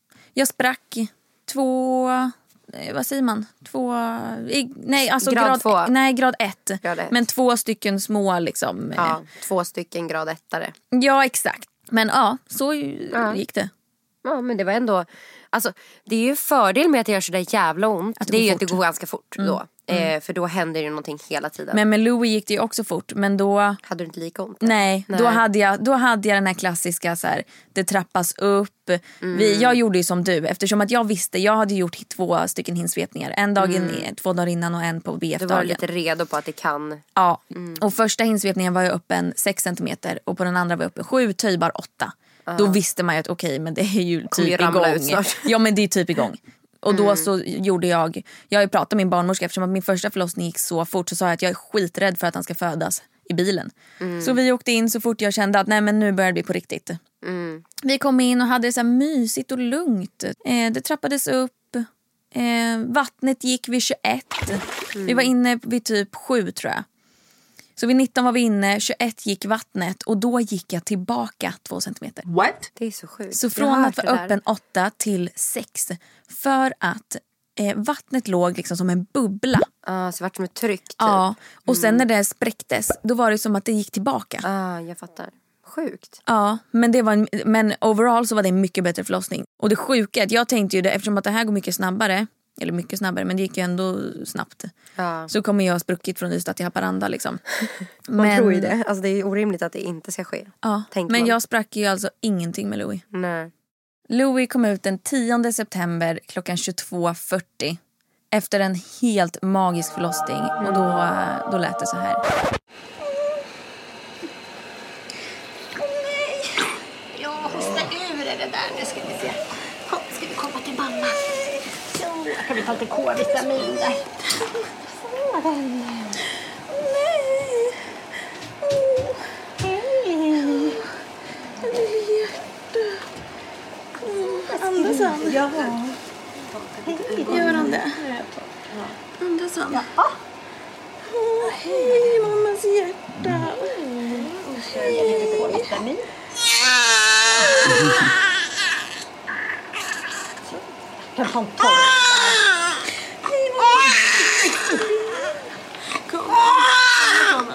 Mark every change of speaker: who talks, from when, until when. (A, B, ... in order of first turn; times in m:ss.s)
0:00.3-0:09.2 A
0:05.2-0:05.9 B
0:06.8-0:07.1 B
0:09.0-0:10.7 B
0:10.9-0:13.7 A
0:13.1-0:13.4 B
0:14.2-0:21.8 B
0:18.2-0:18.8 A
0:19.4-0:20.1 A
0:21.7-0:23.8 A
0:23.8-0:25.4 B
0:24.6-0:35.8 A
0:29.2-0:29.8 B
0:33.6-0:34.1 B
0:35.4-0:37.0 B
0:37.2-0:57.0 A
0:37.5-0:37.8 B
0:42.5-0:42.8 B
0:44.3-0:45.5 B
0:46.9-0:47.3 B
0:54.0-0:54.4 B
0:57.2-0:57.6 B
0:57.8-1:06.8 A
1:04.9-1:05.3 B
1:07.8-1:12.2 A
1:12.3-1:12.6 C
1:12.8-1:14.3 B
1:13.3-1:19.7 A
1:19.8-1:22.0 B
1:21.0-1:24.4 A
1:24.4-1:26.2 B
1:26.2-1:34.7 A
1:35.0-1:35.3 B
1:35.3-1:37.4 A
1:37.7-1:41.4 B
1:38.1-1:38.7 A
1:40.6-1:43.0 A
1:43.1-1:43.5 B
1:44.1-1:47.8 A
1:48.3-1:52.2 A
1:50.6-1:51.0 B
1:57.2-1:59.4 C
1:59.9-2:04.1 C
2:05.1-2:06.2 C
2:06.7-2:07.8 A
2:08.7-2:09.2 A
2:10.1-2:10.8 A
2:11.6-2:13.0 A
2:14.0-2:15.7 A
2:14.5-2:16.0 C
2:16.6-2:19.0 C
2:17.2-2:18.0 A
2:19.2-2:19.9 A
2:19.7-2:20.1 C
2:21.0-2:23.9 A
2:23.8-2:26.0 C
2:24.9-2:25.7 A
2:31.1-2:32.4 C
2:33.4-2:34.8 C
2:36.1-2:36.8 C